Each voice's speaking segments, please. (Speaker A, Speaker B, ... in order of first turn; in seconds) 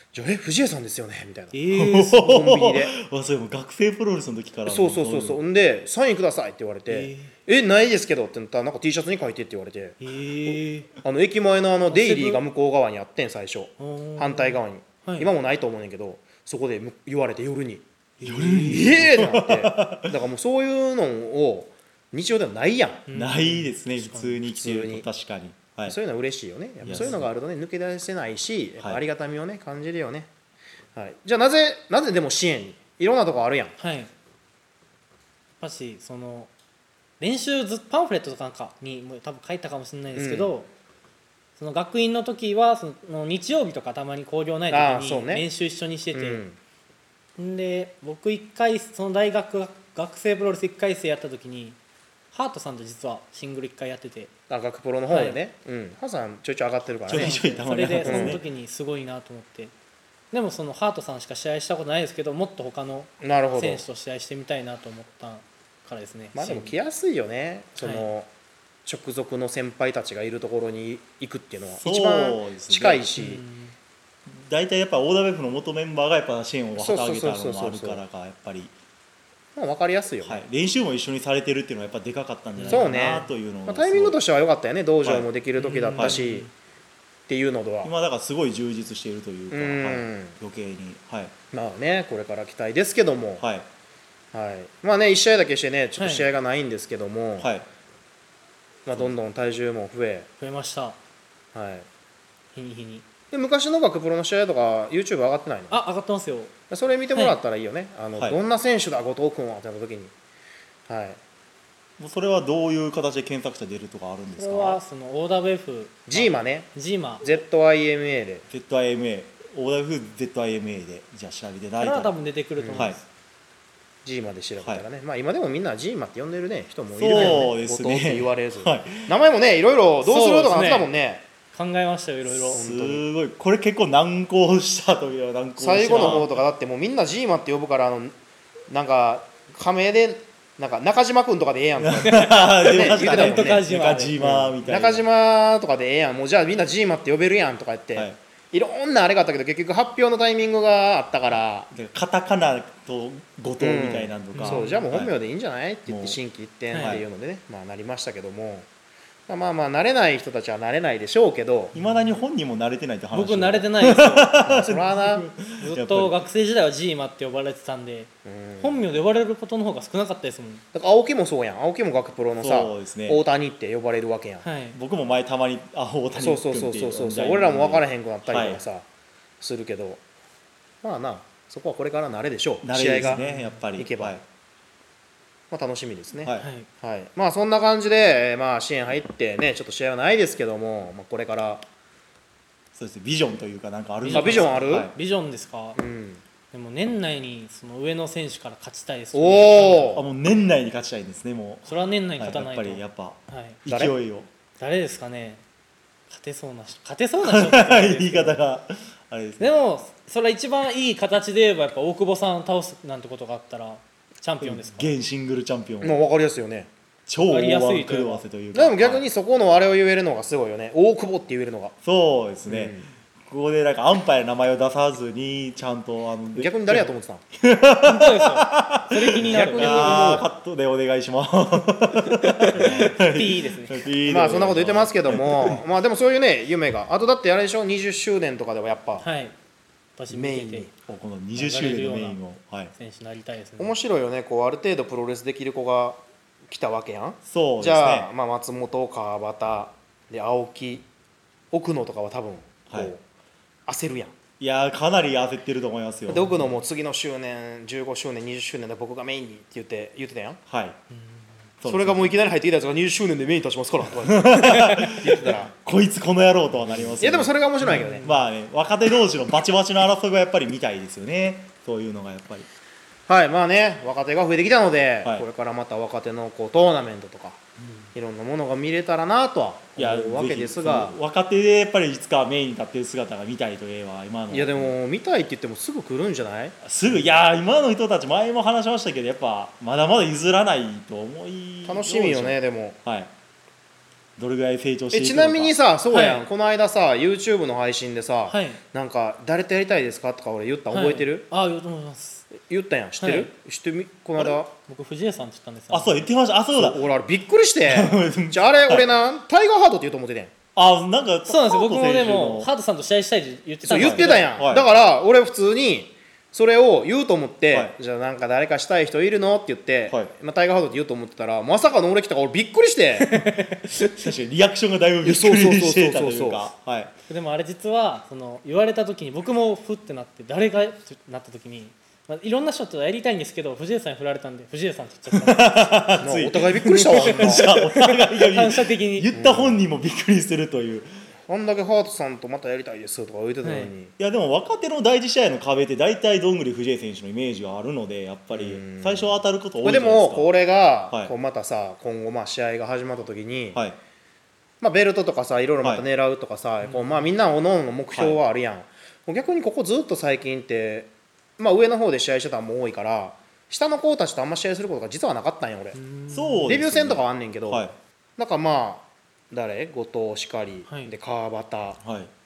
Speaker A: 0.1-1.6, 2.2-2.9, 4.7-10.0, 11.0-17.8, 18.6-23.1, 24.5-25.1, 25.9-30.3, 30.9-33.7, 40.1-40.5, 44.7-45.5, 46.1-46.6, 54.5-57.4, 58.0-58.4, 63.2-63.9, 66.3-68.3, 68.8-73.4, 76.8-78.0, 79.5-80.4, 82.7-86.5, 87.3-87.9, 89.5-90.4, 91.5-93.5, 94.3-97.5, 98.9-100.3, 101.5-101.9, 103.3-105.8, 106.7-110.1, 110.9-111.2, 116.1-116.7, 117.2-118.5, 122.6-122.9, 124.0-131.3, 132.5-133.0, 135.6-138.2, 138.7-151.7, 153.6-158.7, 159.3-161.8, 164.4-165.3, 168.2-168.8, 170.7-174.4, 176.2-178.9, 179.4-180.0, 180.8-183.2, 183.8-184.2, 185.5-191.7, 194.1-194.9, 195.8-196.2, 199.1-200.0, 203.7-204.0, 215.8-216.7, 218.5-221.8, 222.5-222.9, 226.3-227.2, 229.2-230.3, 234.1-239.1, 240.1-240.7, 243.6-250.9, 251.5-253.0, 253.7-254.1, 256.1-260.4, 261.7-265.5, 266.8-268.1, 273.1-277.4, 277.9-281.0, 284.3-286.6, 291.7-292.8, 294.9-301.3, 302.3-304.5, 306.5-310.3, 313.6-323.2, 325.0-326.5, 336.0-337.5, 339.1-339.6, 341.3-343.9, 348.3-353.6, 354.6-365.8, 366.5-371.8
Speaker B: 1.5-2.5, 6.9-7.2, 10.0-10.9, 11.9-12.4, 13.8-15.3, 18.2-19.1, 23.1-24.4, 26.9-27.3, 33.8-34.1, 35.6-36.5, 37.2-40.7, 41.6-46.4, 47.4-51.8, 52.3-54.3, 55.1-55.4, 57.1-59.7, 60.3-66.8, 67.8-68.1, 73.2-73.8, 82.6-82.9, 85.6-86.5, 96.0-96.3, 100.4-101.0, 102.5-103.0, 105.7-106.5, 107.1-107.4, 114.4-117.3, 121.8-123.0, 127.1-127.5, 130.0-130.9, 131.5-132.6, 135.9-136.3, 142.1-144.4, 154.3-154.9, 156.7-157.0, 163.1-164.4, 165.6-170.6, 174.4-174.8, 183.0-183.6, 186.4-186.7, 194.0-195.8, 196.5-200.0, 201.7-203.6, 204.6-205.4, 206.1-208.4, 209.4-214.9, 217.2-218.2, 227.8-230.2, 232.1-233.9, 239.0-239.3, 240.0-240.7, 241.4-242.2, 242.7-243.8, 256.1-256.5, 260.9-261.3, 267.6-268.3, 277.6-277.9, 295.9-296.2, 298.3-298.6, 300.7-302.3, 303.0-303.3, 304.6-306.1, 311.3-314.3, 323.0-323.7, 327.1-336.0, 336.9-339.1, 343.4-343.7, 356.6-357.1, 365.7-366.5, 370.7-370.9
Speaker C: 1.7-5.4, 18.2-20.2, 23.1-26.0, 26.8-27.2, 57.1-58.4, 71.8-73.1, 74.3-78.7, 80.2-84.2, 85.0-85.3, 87.8-91.3, 93.4-93.7, 97.4-97.7, 112.0-114.8, 118.5-122.1, 127.0-129.1, 132.3-136.3, 141.8-145.1, 151.7-155.2, 155.9-156.2, 156.8-157.1, 161.8-166.2, 172.4-173.2, 174.7-178.6, 182.6-184.2, 186.2-186.5, 192.8-194.9, 199.9-204.3, 207.2-209.5, 214.4-216.0, 217.1-219.1, 221.8-235.6, 240.8-242.7, 247.3-248.1, 254.4-256.3, 260.5-260.8, 261.6-262.1, 264.0-272.5, 279.8-284.8, 286.6-293.1, 294.2-295.5, 305.7-306.9, 307.6-308.9, 310.6-312.5, 313.8-314.7, 317.5-317.8, 323.8-326.9, 335.1-340.9, 344.0-350.3, 350.9-351.1, 357.9-358.2, 366.1-367.7, 371.8-372.1